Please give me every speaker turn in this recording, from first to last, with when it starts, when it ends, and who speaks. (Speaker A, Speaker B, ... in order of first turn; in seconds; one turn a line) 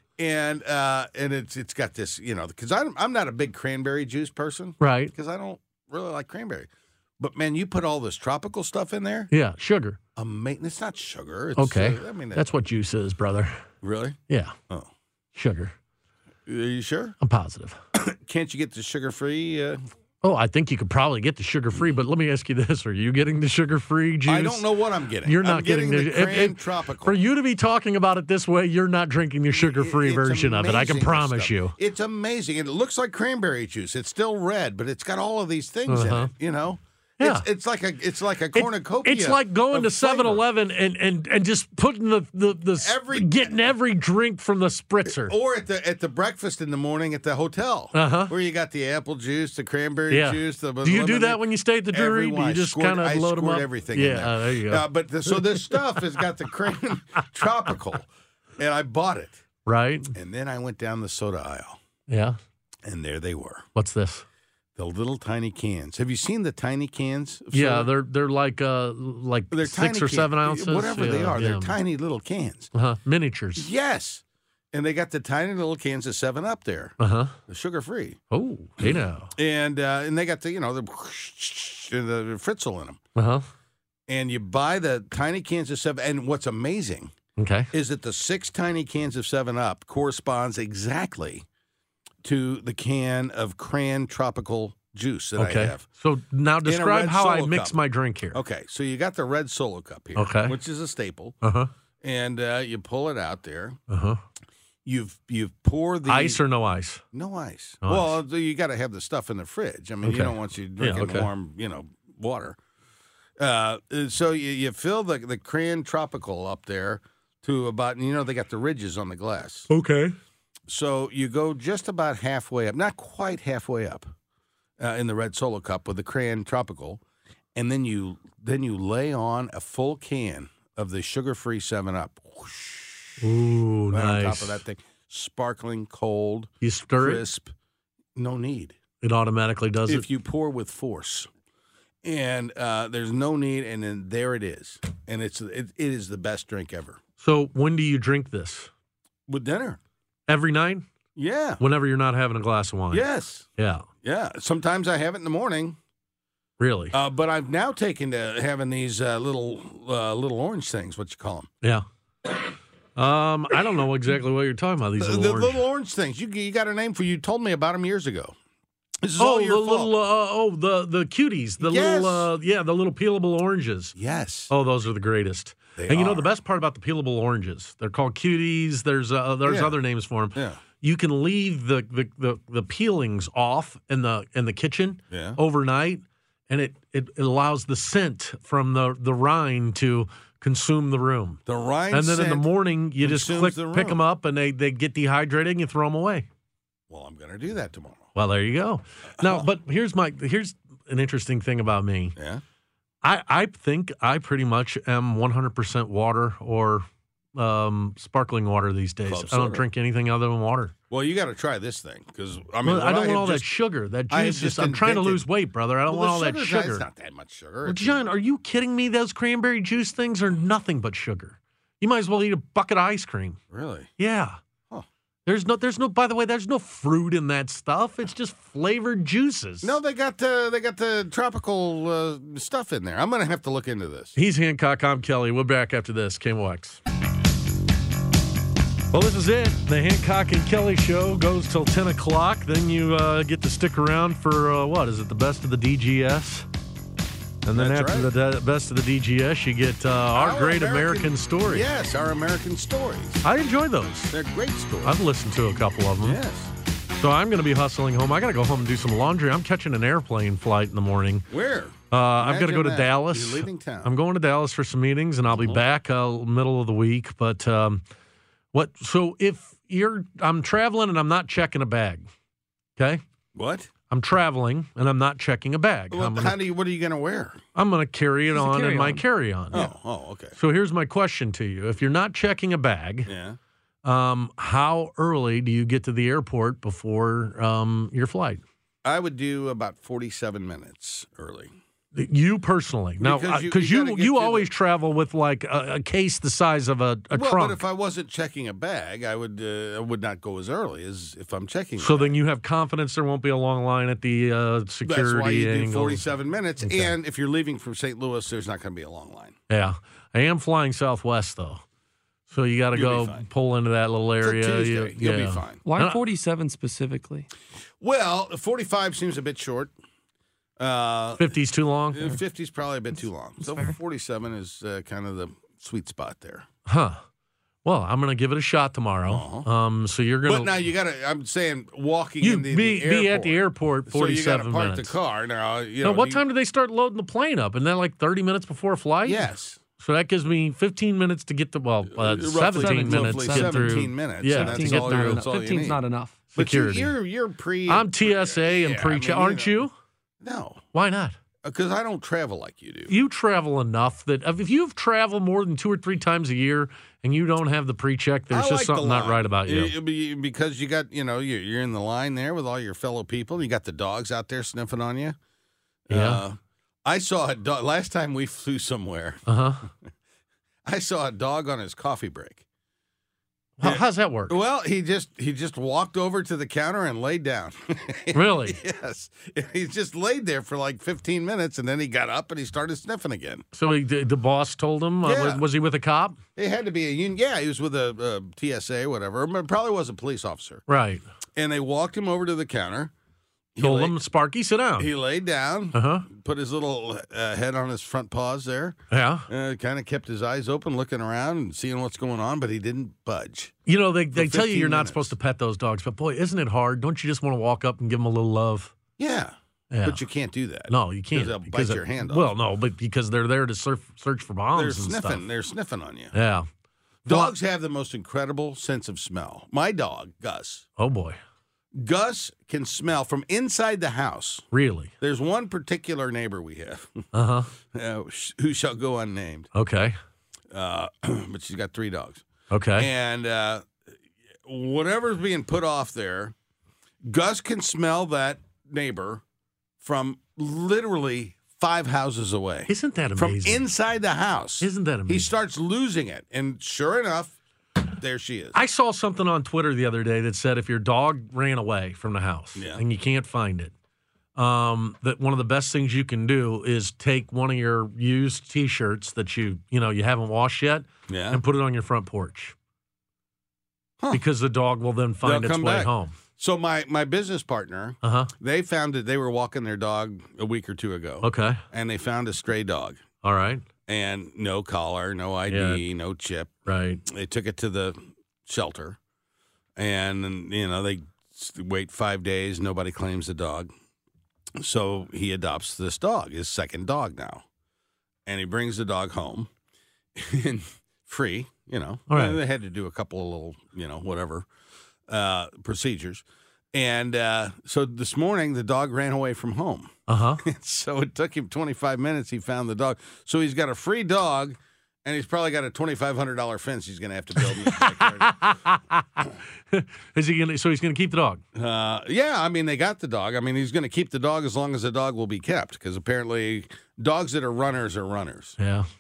Speaker A: 0.2-9.3
Speaker B: 4.8-5.1
Speaker B: 9.3-10.0
Speaker A: 10.2-12.5
Speaker B: 11.6-13.6
Speaker A: 13.8-14.2
Speaker B: 14.3-14.6
Speaker B: 15.3-15.8
Speaker A: 16.5-17.2
Speaker B: 17.2-17.8
Speaker A: 17.9-19.8
Speaker B: 20.2-24.6
Speaker A: 24.3-27.2
Speaker B: 25.3-31.7
Speaker A: 29.5-40.4
Speaker B: 35.9-36.3
Speaker B: 37.2-37.5
Speaker B: 38.5-45.3
Speaker A: 42.8-43.7
Speaker A: 45.1-59.4
Speaker B: 47.9-48.3
Speaker B: 50.1-54.8
Speaker B: 59.7-60.1
Speaker A: 60.1-61.8
Speaker B: 62.1-62.4
Speaker A: 62.9-63.7
Speaker B: 63.8-64.2
Speaker A: 64.8-67.9
Speaker B: 67.5-71.8
Speaker A: 69.5-72.7
Speaker B: 72.7-73.7
Speaker A: 73.6-77.0
Speaker B: 77.0-77.3
Speaker A: 77.5-78.2
Speaker B: 78.3-79.3
Speaker A: 78.8-83.0
Speaker B: 83.2-83.5
Speaker A: 84.1-87.2
Speaker B: 87.4-87.7
Speaker A: 87.7-91.5
Speaker A: 92.2-95.9
Speaker B: 95.4-98.4
Speaker A: 96.6-97.8
Speaker A: 98.3-101.4
Speaker B: 100.2-100.5
Speaker B: 101.4-101.7
Speaker A: 102.0-103.8
Speaker B: 103.9-104.2
Speaker A: 104.8-106.4
Speaker B: 106.1-107.0
Speaker A: 107.1-112.6
Speaker B: 107.8-108.2
Speaker B: 110.0-111.3
Speaker A: 113.4-119.7
Speaker B: 119.7-120.2
Speaker A: 120.7-124.1
Speaker A: 124.8-127.0
Speaker A: 127.5-133.3
Speaker B: 133.2-134.6
Speaker A: 133.9-137.5
Speaker B: 136.6-137.2
Speaker A: 138.2-138.8
Speaker B: 139.0-140.1
Speaker A: 139.9-141.3
Speaker A: 142.0-147.0
Speaker B: 147.2-148.7
Speaker A: 149.3-149.8
Speaker B: 150.3-150.9
Speaker A: 151.2-151.6
Speaker B: 151.6-153.1
Speaker A: 152.9-153.5
Speaker B: 153.6-153.9
Speaker A: 154.0-155.8
Speaker B: 156.6-156.9
Speaker A: 156.9-161.5
Speaker B: 163.0-165.6
Speaker A: 165.0-168.3
Speaker A: 169.0-169.9
Speaker B: 169.2-174.0
Speaker A: 171.6-172.3
Speaker A: 174.0-174.5
Speaker B: 174.5-191.4
Speaker A: 175.8-176.3
Speaker A: 179.4-179.8
Speaker A: 180.3-180.6
Speaker A: 185.1-185.4
Speaker A: 191.5-192.5
Speaker B: 191.9-196.3
Speaker A: 193.0-194.0
Speaker A: 196.9-198.1
Speaker B: 198.2-202.2
Speaker A: 199.2-199.5
Speaker A: 202.2-202.4
Speaker B: 203.0-210.7
Speaker A: 209.1-209.6
Speaker A: 210.9-213.5
Speaker B: 212.6-216.8
Speaker A: 214.1-215.2
Speaker A: 215.9-218.1
Speaker B: 217.7-223.4
Speaker A: 223.5-223.9
Speaker B: 224.0-224.4
Speaker B: 225.3-229.8
Speaker A: 229.6-234.2
Speaker B: 234.2-236.8
Speaker B: 238.9-246.5
Speaker B: 247.4-251.7
Speaker A: 247.6-248.1
Speaker A: 250.1-253.2
Speaker B: 253.2-254.1
Speaker A: 254.1-255.0
Speaker B: 254.8-256.2
Speaker A: 256.0-256.5
Speaker B: 257.0-261.3
Speaker A: 261.3-263.9
Speaker B: 261.9-267.8
Speaker A: 265.3-265.6
Speaker B: 268.5-272.1
Speaker B: 272.8-273.0
Speaker A: 273.4-273.7
Speaker B: 273.9-276.4
Speaker A: 275.9-277.4
Speaker B: 277.6-279.7
Speaker C: 278.3-279.1
Speaker A: 279.5-280.4
Speaker B: 280.4-283.1
Speaker A: 283.1-283.4
Speaker B: 283.8-288.4
Speaker A: 288.8-291.5
Speaker B: 291.9-297.6
Speaker A: 293.0-294.5
Speaker A: 297.1-302.2
Speaker B: 301.8-306.0
Speaker A: 304.9-309.4
Speaker B: 306.6-306.9
Speaker B: 309.5-311.6
Speaker B: 312.3-316.0
Speaker A: 312.7-313.3
Speaker A: 314.2-315.6
Speaker C: 315.6-317.3
Speaker A: 317.8-319.7
Speaker A: 320.6-321.4
Speaker B: 321.2-322.2
Speaker A: 321.9-326.5
Speaker C: 323.4-323.8
Speaker B: 326.7-327.0
Speaker B: 327.6-330.5
Speaker A: 329.1-329.5
Speaker A: 330.3-336.2
Speaker B: 332.2-334.9
Speaker B: 335.8-345.3
Speaker A: 339.1-339.6
Speaker A: 341.9-345.8
Speaker C: 342.5-346.3
Speaker B: 346.3-346.9
Speaker A: 346.4-349.7
Speaker B: 347.7-349.7
Speaker A: 350.2-350.7
Speaker B: 350.7-351.2
Speaker A: 351.4-352.9
Speaker B: 352.9-359.7
Speaker A: 358.3-365.2
Speaker A: 365.9-369.7
Speaker B: 365.9-366.2
Speaker B: 369.3-369.6
Speaker A: 370.6-372.4
Speaker B: 373.6-374.4
Speaker A: 373.6-383.5
Speaker B: 378.1-378.6
Speaker B: 383.5-386.2
Speaker A: 385.0-385.4
Speaker A: 386.4-390.6
Speaker B: 390.7-391.0
Speaker A: 391.4-392.9
Speaker A: 393.5-394.0
Speaker B: 393.6-394.9
Speaker A: 394.8-403.5
Speaker B: 395.7-396.1
Speaker B: 398.9-399.3
Speaker B: 403.7-408.7
Speaker A: 404.1-405.1
Speaker A: 409.0-412.3
Speaker B: 409.7-410.0
Speaker B: 410.7-415.2
Speaker A: 414.5-416.1
Speaker B: 416.1-416.5
Speaker A: 417.1-420.7
Speaker B: 417.1-417.3
Speaker B: 420.8-421.2
Speaker A: 421.8-424.5
Speaker B: 424.5-424.9
Speaker A: 425.0-429.5
Speaker B: 427.1-427.5
Speaker B: 429.6-430.0
Speaker A: 430.5-432.2
Speaker B: 432.5-432.9
Speaker A: 432.8-433.8
Speaker A: 434.4-436.4
Speaker A: 437.0-439.2
Speaker A: 439.8-447.4
Speaker B: 442.7-443.6
Speaker B: 444.6-445.3
Speaker A: 448.0-448.6
Speaker B: 448.5-453.7
Speaker A: 452.6-452.8
Speaker B: 454.4-462.6
Speaker A: 461.1-461.4
Speaker B: 464.1-466.1
Speaker A: 465.2-473.0
Speaker B: 468.0-468.3
Speaker B: 471.2-471.6
Speaker B: 473.2-473.7
Speaker A: 473.9-479.0
Speaker B: 475.5-475.8
Speaker B: 476.7-477.0
Speaker A: 479.8-483.7
Speaker A: 484.6-487.4
Speaker A: 488.3-489.5
Speaker A: 490.1-494.5
Speaker B: 492.1-492.4
Speaker A: 495.1-508.5
Speaker B: 500.1-500.4
Speaker B: 507.7-511.4
Speaker A: 511.6-518.6
Speaker B: 518.6-518.9